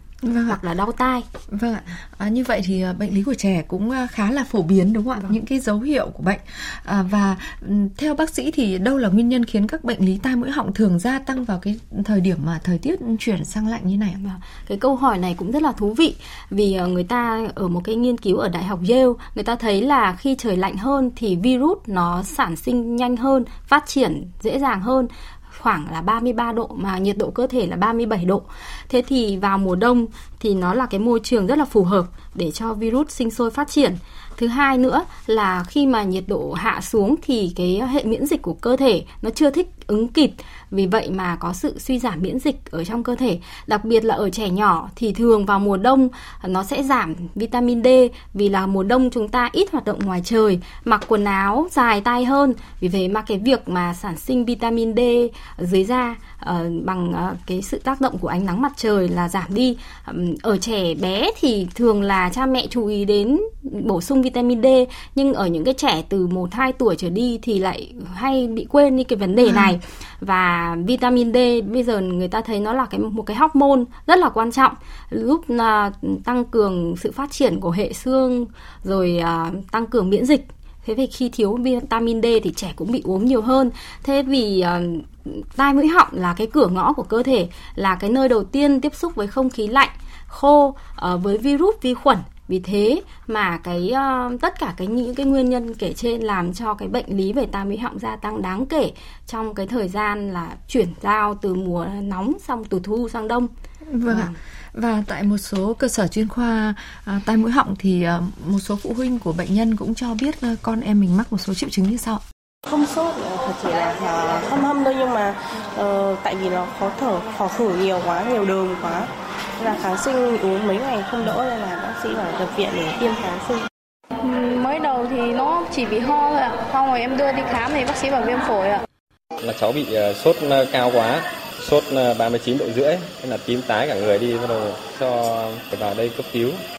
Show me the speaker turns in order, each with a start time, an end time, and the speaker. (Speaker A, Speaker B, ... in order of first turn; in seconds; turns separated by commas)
Speaker A: 0.2-0.6, Speaker B: 0.5-1.3, Speaker A: 1.5-14.2, Speaker B: 14.2-103.5, Speaker A: 69.4-69.7, Speaker A: 103.9-112.2, Speaker B: 104.0-104.3, Speaker C: 112.7-123.7, Speaker D: 124.2-128.8, Speaker E: 129.4-136.6